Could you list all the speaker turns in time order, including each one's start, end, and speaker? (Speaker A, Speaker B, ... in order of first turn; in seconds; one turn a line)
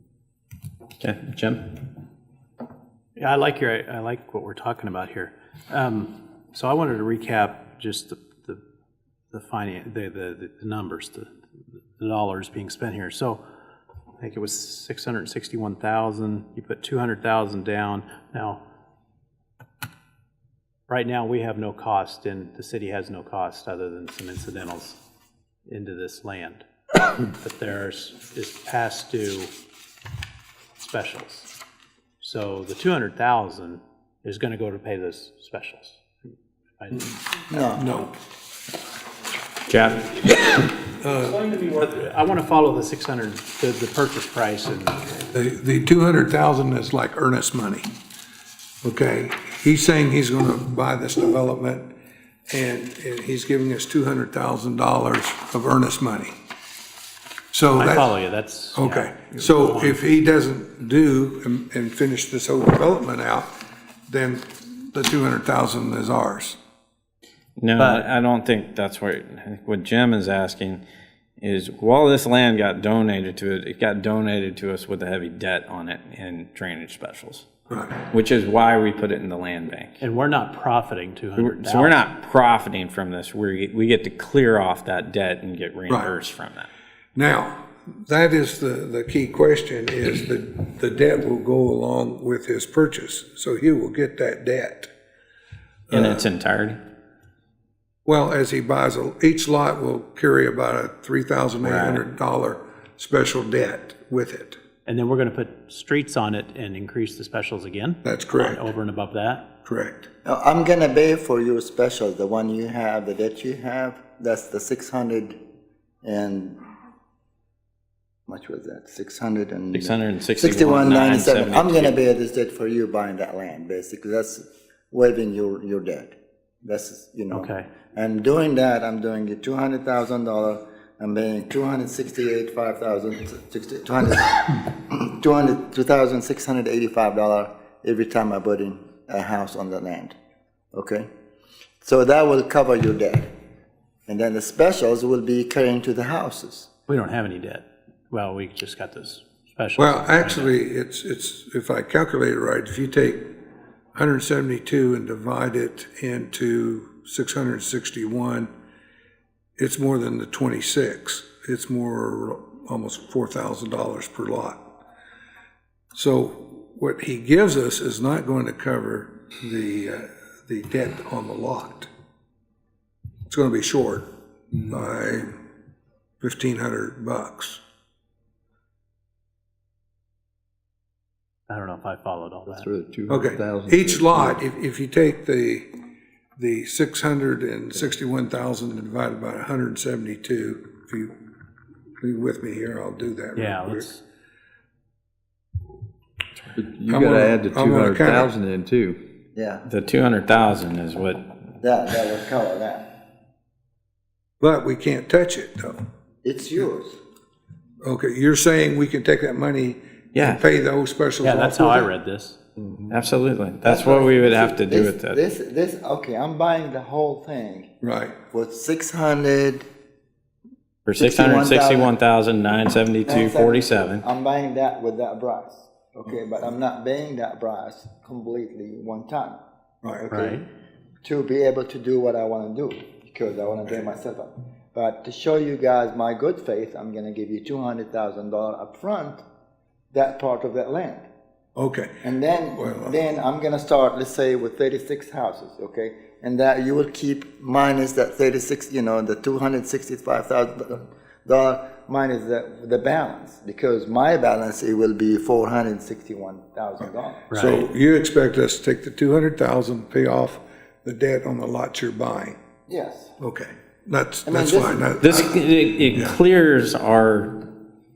Speaker A: 1.0-1.9
Speaker B: 3.1-8.6
Speaker B: 9.3-11.3
Speaker B: 12.0-13.4
Speaker B: 14.2-18.6
Speaker B: 20.9-25.0
Speaker B: 25.7-26.6
Speaker B: 27.2-29.5
Speaker B: 30.8-31.5
Speaker B: 32.2-36.0
Speaker B: 36.8-37.1
Speaker C: 37.5-37.9
Speaker D: 37.5-38.1
Speaker A: 39.7-40.7
Speaker D: 41.0-41.4
Speaker B: 41.3-45.2
Speaker D: 45.3-47.9
Speaker D: 48.8-51.9
Speaker D: 52.5-56.4
Speaker D: 57.5-58.1
Speaker B: 57.8-60.0
Speaker D: 58.7-63.5
Speaker D: 64.1-66.6
Speaker A: 67.6-70.8
Speaker B: 67.8-68.1
Speaker A: 71.4-77.5
Speaker D: 77.7-78.0
Speaker A: 78.1-80.0
Speaker B: 80.0-82.0
Speaker A: 81.4-86.7
Speaker D: 85.9-86.1
Speaker D: 87.1-94.9
Speaker D: 95.9-96.2
Speaker A: 95.9-96.8
Speaker D: 98.0-104.6
Speaker A: 101.6-102.0
Speaker B: 104.8-109.5
Speaker D: 108.0-108.7
Speaker D: 109.6-110.1
Speaker C: 110.2-115.4
Speaker C: 116.0-116.6
Speaker C: 118.3-140.2
Speaker A: 119.7-122.0
Speaker B: 127.3-127.8
Speaker C: 140.7-141.1
Speaker C: 141.8-143.3
Speaker C: 144.1-146.7
Speaker B: 146.9-150.5
Speaker D: 149.8-153.3
Speaker D: 153.9-158.5
Speaker D: 159.6-164.7
Speaker D: 165.9-171.9
Speaker D: 173.3-174.1
Speaker D: 174.7-175.3
Speaker D: 176.2-177.6
Speaker B: 181.5-182.7
Speaker E: 182.5-184.4
Speaker D: 183.1-185.7
Speaker D: 186.4-191.1
Speaker D: 192.0-193.9
Speaker B: 193.4-194.0
Speaker E: 196.5-199.0
Speaker D: 196.9-198.3
Speaker C: 199.3-199.7
Speaker A: 199.7-201.2
Speaker C: 201.6-203.0
Speaker D: 204.4-205.9
Speaker C: 206.2-207.0
Speaker D: 207.8-211.8
Speaker A: 210.1-210.4
Speaker B: 211.2-212.4
Speaker A: 212.9-215.2
Speaker C: 213.6-217.7
Speaker D: 217.8-218.2
Speaker C: 218.3-219.6
Speaker A: 220.8-224.0
Speaker C: 220.9-221.9
Speaker C: 223.1-229.4
Speaker C: 230.0-230.4
Speaker B: 230.1-230.4
Speaker C: 231.0-239.2
Speaker C: 239.9-241.1
Speaker D: 241.6-243.0
Speaker C: 242.0-257.5
Speaker B: 257.3-257.6
Speaker D: 257.3-262.4
Speaker C: 262.7-263.1
Speaker D: 263.2-266.2
Speaker C: 264.2-264.9
Speaker A: 265.0-267.5